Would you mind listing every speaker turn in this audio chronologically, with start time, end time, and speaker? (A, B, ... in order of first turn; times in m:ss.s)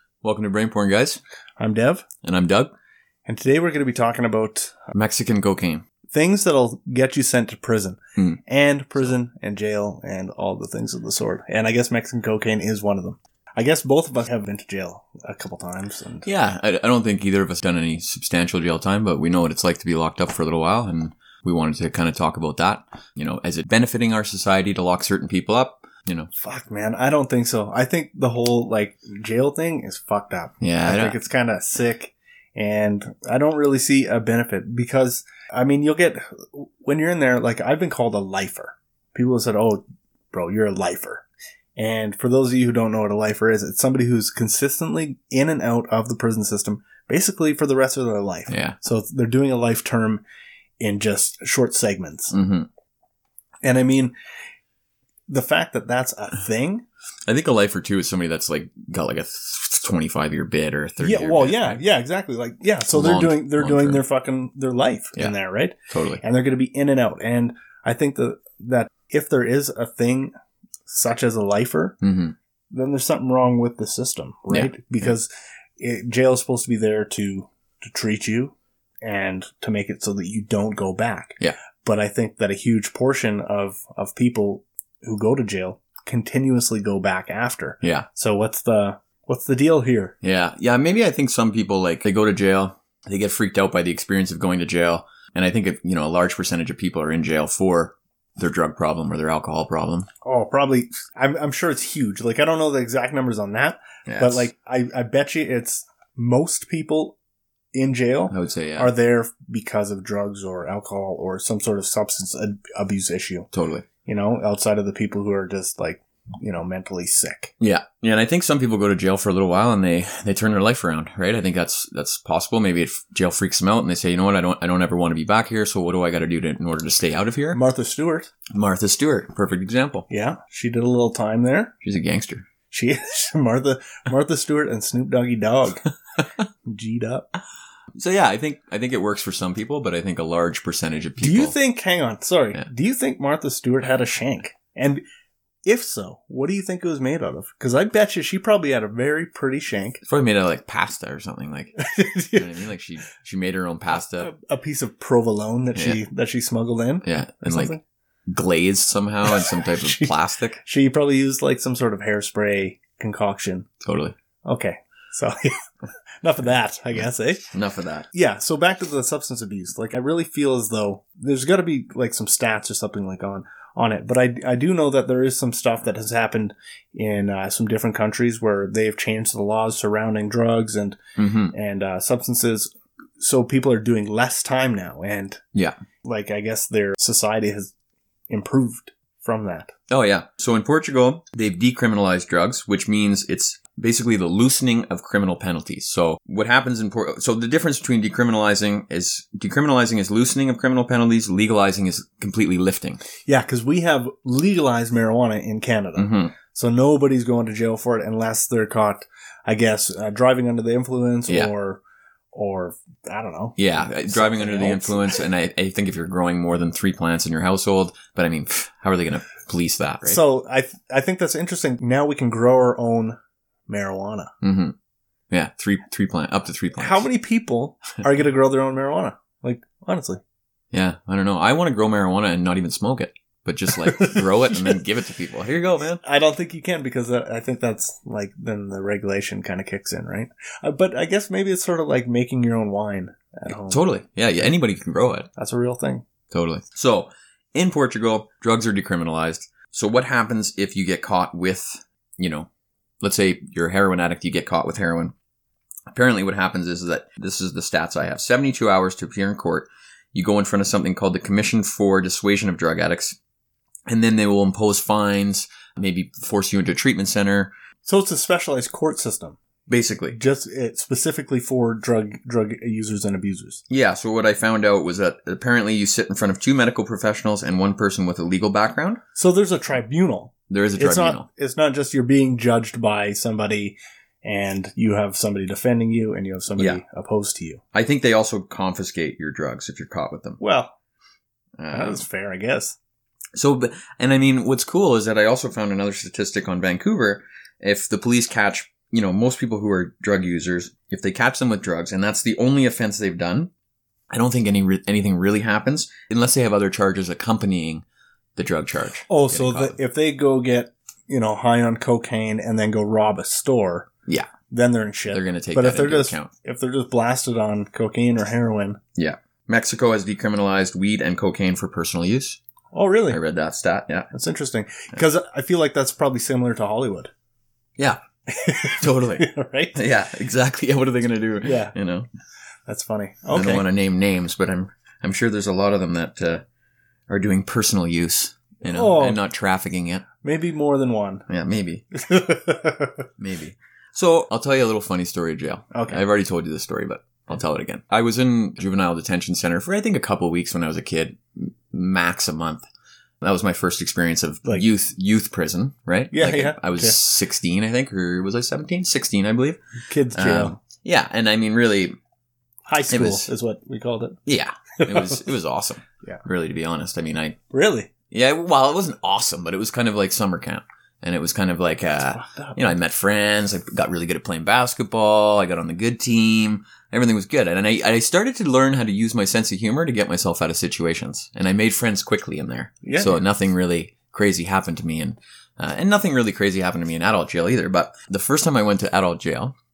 0:00.2-0:01.2 A
0:01.6-0:02.0 B
0:02.2-0:02.7 A
0:03.3-0:04.9 B
0:04.9-0:05.8 A
0:06.1-0:16.3 B
0:16.2-0:26.3 A
0:26.4-0:41.2 B
0:30.6-0:31.2 A
0:41.8-0:50.2 B
0:48.5-0:48.8 A
0:50.8-0:52.4 B
0:52.3-0:52.7 A
0:53.6-0:54.1 B
0:55.3-0:56.8 B
0:57.3-1:01.8 A
1:01.0-1:10.3 B
1:02.9-1:04.0 A
1:05.9-1:06.2 A
1:10.9-1:12.0 B
1:12.0-1:12.4 A
1:12.7-1:30.2 B
1:14.5-1:15.1 A
1:30.2-1:40.1 A
1:40.2-1:47.2 B
1:44.1-1:44.5 A
1:47.7-1:53.5 B
1:48.3-1:48.9 A
1:53.5-1:53.9 A
1:54.0-1:57.5 B
1:57.6-2:07.6 A
2:07.5-2:08.3 B
2:08.5-2:10.1 A
2:10.1-2:11.7 B
2:11.8-2:12.5 A
2:12.7-2:15.9 B
2:16.6-2:17.3 B
2:18.0-2:21.6 A
2:21.2-2:25.0 B
2:25.7-2:30.0 B
2:30.0-2:34.3 A
2:31.8-2:32.5 B
2:33.9-2:37.8 B
2:35.8-2:36.0 A
2:37.0-2:37.7 A
2:38.3-2:40.6 A
2:39.3-2:43.7 B
2:43.8-2:44.2 A
2:44.4-2:45.5 B
2:46.2-2:47.5 B
2:47.5-2:48.1 A
2:48.1-3:01.0 B
3:01.2-3:01.5 A
3:01.5-3:05.4 B
3:06.0-3:07.7 B
3:08.3-3:09.7 B
3:09.9-3:23.0 A
3:23.3-3:31.8 B
3:26.0-3:26.3 A
3:32.3-3:35.2 B
3:33.6-3:40.2 A
3:40.0-3:43.2 B
3:43.7-3:44.3 B
3:44.4-3:44.8 A
3:45.3-3:47.0 A
3:46.8-3:50.2 B
3:50.7-3:56.0 A
3:53.9-3:54.7 B
3:56.0-4:03.8 B
4:03.7-4:05.3 A
4:05.4-4:06.1 B
4:06.3-4:12.5 A
4:13.0-4:15.1 A
4:15.9-4:23.2 A
4:23.9-4:27.5 A
4:27.8-4:29.4 B
4:29.7-4:30.2 A
4:30.1-4:33.6 B
4:33.7-4:39.0 A
4:39.2-4:47.6 B
4:40.5-4:41.3 A
4:47.7-4:50.4 A
4:50.4-4:50.7 B
4:51.6-4:52.0 A
4:51.7-4:52.8 B
4:53.4-5:03.5 A
5:04.1-5:07.8 A
5:08.4-5:09.8 A
5:09.1-5:13.9 B
5:14.5-5:18.8 B
5:15.1-5:16.3 A
5:19.0-5:22.4 A
5:22.7-5:23.2 B
5:23.1-5:24.1 A
5:24.1-5:27.1 B
5:28.3-5:29.8 B
5:28.6-5:32.1 A
5:31.4-5:31.7 B
5:32.7-5:33.7 B
5:33.3-5:36.4 A
5:37.1-5:40.1 A
5:38.6-5:39.2 B
5:40.2-5:41.3 B
5:41.3-5:41.9 A
5:42.0-5:43.0 B
5:43.2-5:52.6 A
5:45.7-5:46.0 B
5:53.2-5:59.6 A
5:56.1-5:57.0 B
5:59.9-6:00.6 B
6:00.1-6:02.0 A
6:02.7-6:04.2 B
6:02.9-6:03.3 A
6:04.3-6:07.4 A
6:04.8-6:05.2 B
6:07.5-6:07.9 B
6:08.1-6:29.6 A
6:12.2-6:12.6 B
6:22.8-6:23.2 B